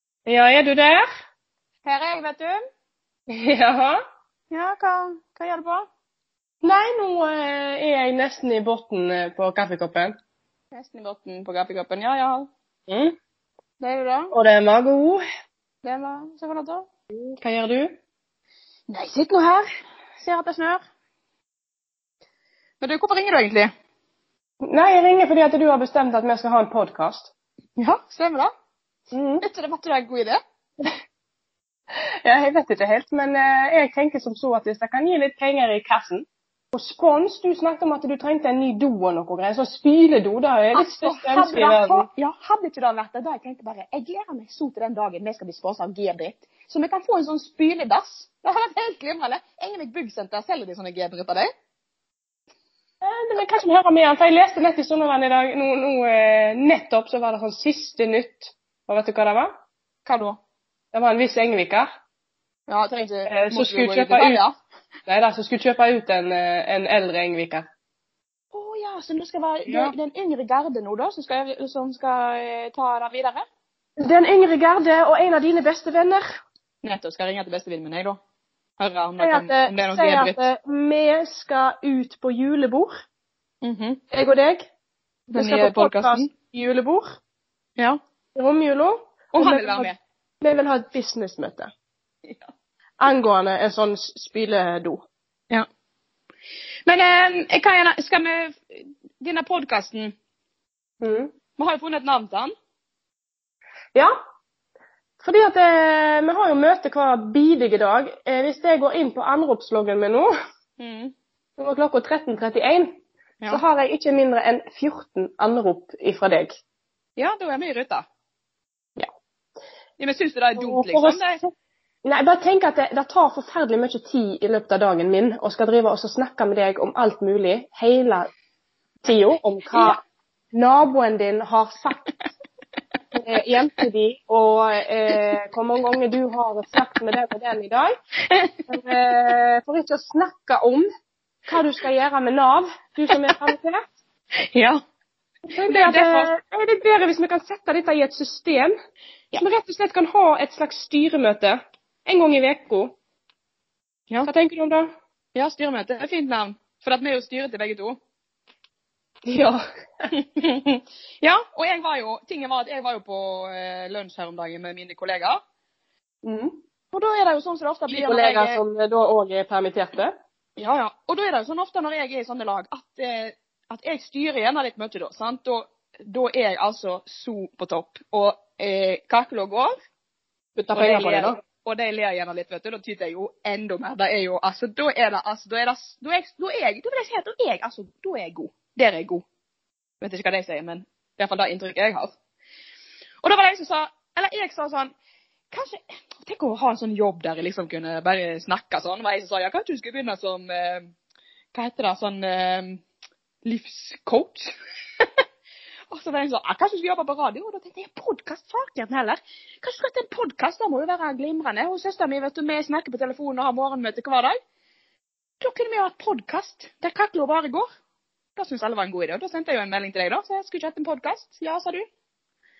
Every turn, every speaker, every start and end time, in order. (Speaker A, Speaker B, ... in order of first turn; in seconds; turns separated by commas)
Speaker A: 0.2-1.0, Speaker B: 1.8-2.6, Speaker A: 3.3-4.0, Speaker B: 4.5-5.9, Speaker A: 6.6-10.1, Speaker B: 10.7-12.5, Speaker A: 12.9-13.1, Speaker B: 13.8-14.3, Speaker A: 14.3-15.2, Speaker B: 15.8-16.9, Speaker A: 17.1-18.0, Speaker B: 18.9-19.6, Speaker B: 20.2-20.8, Speaker B: 22.8-23.7, Speaker A: 24.6-27.3, Speaker B: 27.8-28.5, Speaker A: 29.1-29.4, Speaker B: 29.4-30.4, Speaker A: 32.0-42.1, Speaker B: 40.7-51.5, Speaker A: 53.0-59.5, Speaker B: 60.0-60.4, Speaker A: 60.9-61.9, Speaker B: 62.7-64.5, Speaker A: 63.2-64.4, Speaker A: 65.1-67.7, Speaker B: 68.5-73.4, Speaker A: 69.7-69.9, Speaker A: 74.0-76.2, Speaker B: 76.8-78.2, Speaker B: 78.8-80.4, Speaker A: 79.2-82.9, Speaker B: 83.6-84.0, Speaker A: 84.1-84.6, Speaker A: 85.3-87.2, Speaker B: 85.3-86.3, Speaker A: 88.3-91.7, Speaker B: 89.3-90.0, Speaker B: 92.2-92.5, Speaker A: 93.0-95.0, Speaker B: 96.9-100.1, Speaker A: 101.0-101.3, Speaker B: 101.6-102.5, Speaker A: 105.2-110.3, Speaker B: 110.8-111.1, Speaker A: 111.6-116.5, Speaker B: 117.2-118.0, Speaker B: 120.0-121.4, Speaker A: 120.6-121.5, Speaker A: 122.0-128.3, Speaker A: 129.0-130.0, Speaker A: 130.5-132.1, Speaker A: 133.1-137.9, Speaker B: 138.2-139.3, Speaker A: 138.7-140.9, Speaker A: 141.5-143.9, Speaker B: 143.1-143.4, Speaker B: 144.4-144.8, Speaker A: 145.5-148.7, Speaker B: 145.7-146.3, Speaker A: 149.4-153.0, Speaker A: 154.2-154.9, Speaker B: 155.3-158.0, Speaker A: 159.2-159.6, Speaker B: 160.1-165.4, Speaker A: 166.2-166.6, Speaker B: 166.9-168.6, Speaker A: 167.9-170.1, Speaker B: 170.6-179.7, Speaker A: 180.6-181.4, Speaker B: 180.7-189.2, Speaker B: 190.0-192.1, Speaker B: 193.2-194.9, Speaker B: 195.5-200.9, Speaker B: 201.5-202.8, Speaker B: 203.4-205.2, Speaker B: 205.9-214.3, Speaker B: 215.4-217.6, Speaker B: 218.3-221.9